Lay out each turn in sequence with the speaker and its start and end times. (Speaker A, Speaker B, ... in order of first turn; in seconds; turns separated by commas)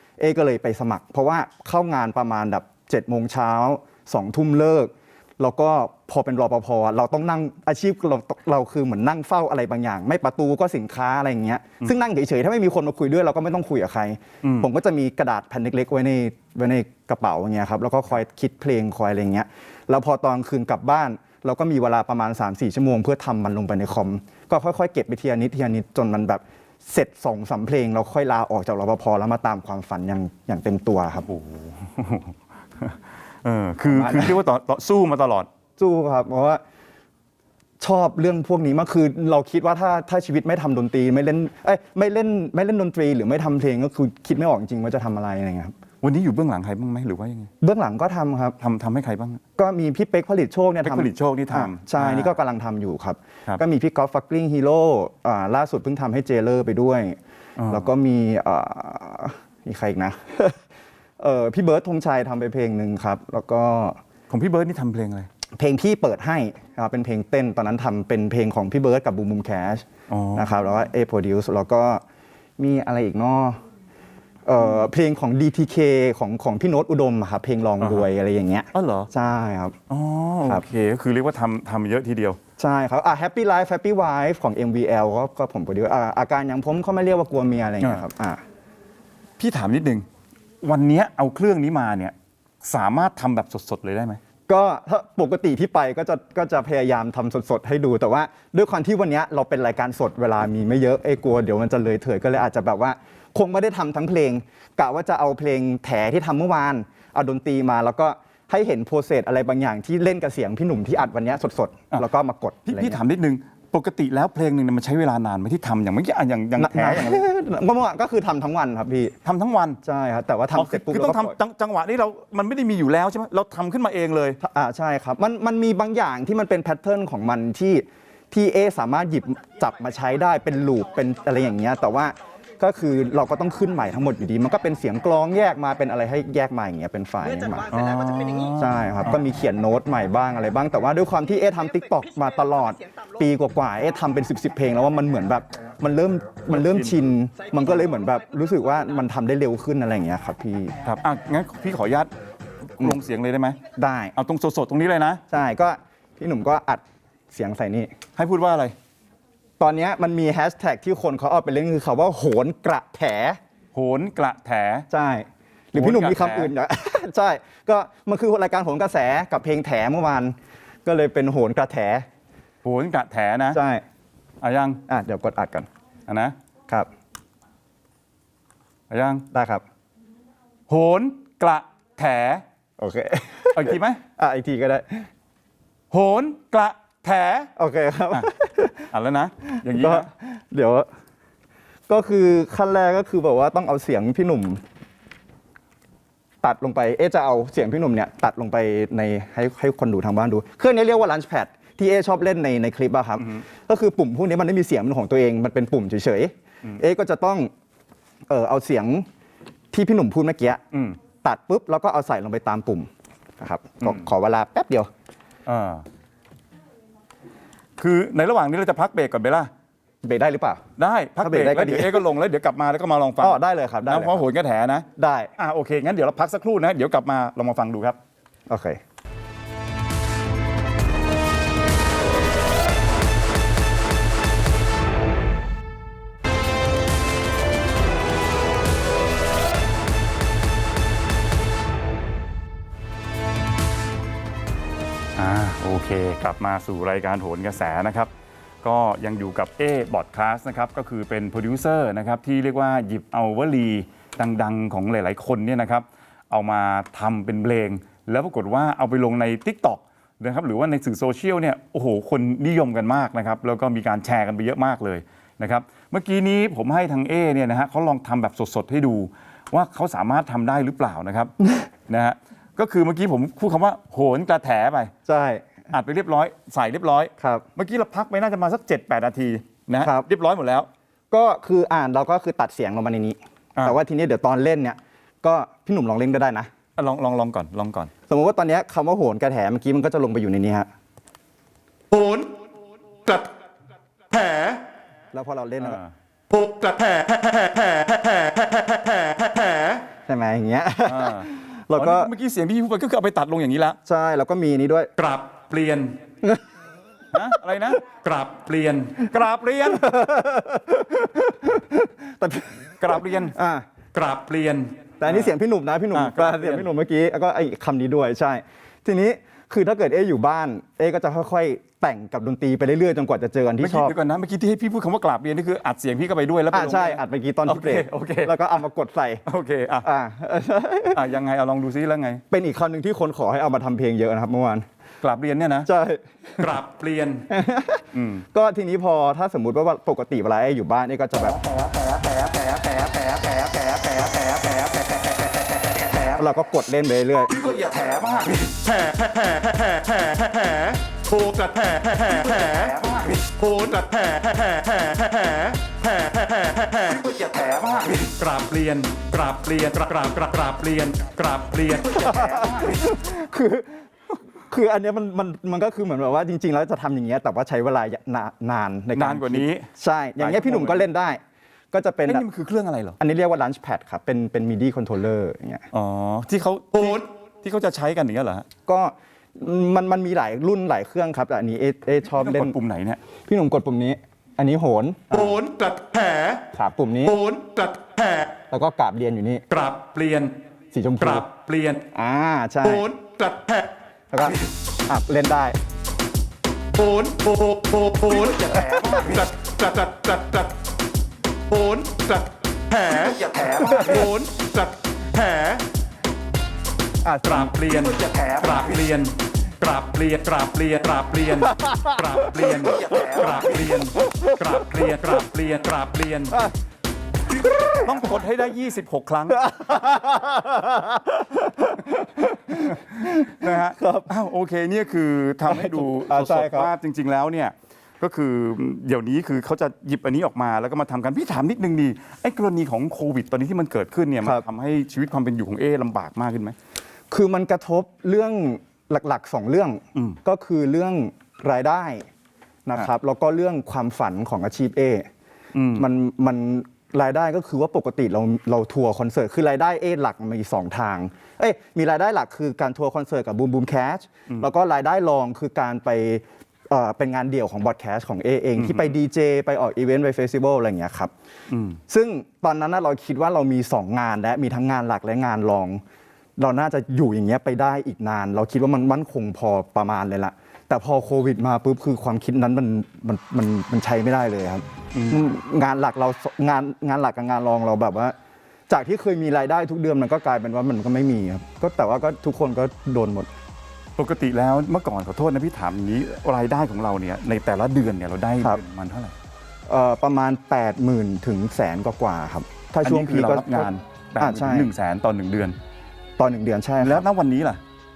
Speaker A: 0.2-31.2, Speaker B: 14.4-14.7, Speaker B: 31.2-35.5, Speaker A: 33.9-34.4, Speaker A: 35.8-36.6, Speaker A: 37.8-45.7, Speaker B: 46.0-47.5, Speaker A: 47.6-48.6, Speaker B: 48.6-49.4, Speaker A: 49.6-57.2, Speaker B: 50.8-52.3, Speaker B: 57.6-57.9, Speaker A: 57.7-60.6, Speaker A: 61.2-64.0, Speaker B: 64.3-65.3, Speaker A: 65.6-72.0, Speaker B: 70.1-70.5, Speaker A: 72.6-73.6, Speaker A: 74.5-79.8, Speaker B: 77.8-78.1, Speaker B: 78.7-79.1, Speaker B: 79.9-82.4, Speaker A: 82.6-88.4, Speaker B: 89.4-90.0, Speaker B: 90.6-94.2, Speaker A: 94.5-113.0, Speaker B: 112.7-117.2, Speaker A: 116.6-119.2, Speaker B: 119.2-119.8, Speaker A: 119.8-121.3, Speaker B: 120.5-124.4, Speaker A: 124.4-137.7, Speaker B: 137.7-139.2, Speaker A: 138.6-150.8, Speaker B: 146.5-147.0, Speaker B: 150.8-152.1, Speaker B: 152.7-153.6, Speaker A: 153.8-154.1, Speaker B: 154.1-155.2, Speaker A: 155.3-157.9, Speaker B: 158.2-158.7, Speaker A: 159.6-163.4, Speaker B: 163.7-164.8, Speaker A: 164.9-172.1, Speaker B: 165.7-166.5, Speaker B: 172.6-173.6, Speaker A: 173.5-173.8, Speaker B: 174.4-174.8, Speaker A: 174.9-175.7, Speaker B: 176.1-176.3, Speaker B: 178.9-179.2, Speaker A: 179.3-179.6, Speaker B: 180.7-182.4, Speaker A: 182.8-185.1, Speaker B: 183.5-184.0, Speaker B: 185.9-187.5, Speaker A: 187.6-188.9, Speaker B: 188.9-190.1, Speaker A: 189.5-190.9, Speaker A: 191.9-194.6, Speaker A: 196.4-207.5, Speaker A: 208.3-209.1, Speaker A: 209.7-210.6, Speaker B: 210.7-211.0, Speaker A: 211.2-212.9, Speaker A: 213.4-214.9, Speaker B: 213.8-214.1, Speaker B: 215.4-215.8, Speaker B: 217.8-219.5, Speaker A: 220.0-220.6, Speaker B: 220.8-228.0, Speaker A: 221.2-222.0, Speaker A: 223.2-224.2, Speaker A: 224.9-225.3, Speaker A: 228.5-228.8, Speaker B: 245.2-248.1, Speaker B: 248.6-271.3, Speaker B: 271.9-274.9, Speaker A: 275.1-275.5, Speaker B: 275.7-280.7, Speaker A: 277.2-277.4, Speaker A: 279.8-280.1, Speaker A: 281.1-286.5, Speaker B: 286.8-287.9, Speaker A: 288.1-290.7, Speaker B: 291.9-292.4, Speaker B: 293.0-293.3, Speaker B: 294.1-294.6, Speaker A: 295.1-295.8, Speaker B: 295.6-299.8, Speaker A: 300.1-302.1, Speaker B: 300.9-303.8, Speaker A: 303.9-304.9, Speaker B: 305.0-306.0, Speaker B: 307.1-309.9, Speaker A: 309.7-313.6, Speaker B: 312.8-313.3, Speaker B: 313.9-315.3, Speaker A: 315.0-323.9, Speaker B: 315.9-316.7, Speaker B: 323.6-328.3, Speaker A: 326.5-329.2, Speaker B: 329.2-329.9, Speaker A: 329.8-331.0, Speaker B: 330.9-332.2, Speaker A: 332.3-334.6, Speaker B: 335.0-335.7, Speaker A: 335.6-336.4, Speaker B: 336.4-337.3, Speaker A: 337.3-341.4, Speaker B: 337.9-338.2, Speaker B: 341.2-346.2, Speaker A: 346.1-347.3, Speaker B: 347.3-362.9, Speaker A: 361.9-363.8, Speaker A: 364.5-371.2, Speaker B: 368.9-370.9, Speaker A: 371.7-372.2, Speaker B: 372.1-373.0, Speaker A: 373.0-375.6, Speaker B: 375.7-378.5, Speaker A: 378.7-382.6, Speaker B: 382.1-383.0, Speaker A: 383.2-385.4, Speaker B: 385.1-386.4, Speaker A: 386.5-387.2, Speaker B: 387.1-388.3, Speaker A: 388.5-389.4, Speaker B: 389.5-390.3, Speaker A: 390.7-391.2, Speaker B: 391.0-391.8, Speaker A: 391.9-392.9, Speaker B: 392.6-393.7, Speaker A: 394.1-395.6, Speaker B: 396.8-400.6, Speaker A: 398.4-399.2, Speaker B: 401.5-405.6, Speaker A: 403.6-404.1, Speaker A: 407.0-407.6, Speaker B: 407.2-416.4, Speaker A: 411.6-412.0, Speaker A: 412.6-413.4, Speaker A: 414.0-414.4, Speaker B: 417.4-419.4, Speaker A: 417.5-417.9, Speaker A: 419.3-424.1, Speaker B: 422.6-436.6, Speaker A: 425.5-426.7, Speaker A: 437.1-442.1, Speaker A: 442.6-445.1, Speaker B: 445.5-445.8, Speaker A: 445.7-461.1, Speaker B: 458.6-458.9, Speaker B: 461.5-461.8, Speaker A: 461.9-465.8, Speaker A: 466.4-478.1, Speaker B: 474.9-475.2, Speaker A: 478.7-483.3, Speaker B: 484.0-489.1, Speaker A: 489.7-494.7, Speaker B: 492.8-495.6, Speaker A: 496.2-497.1, Speaker B: 496.8-497.6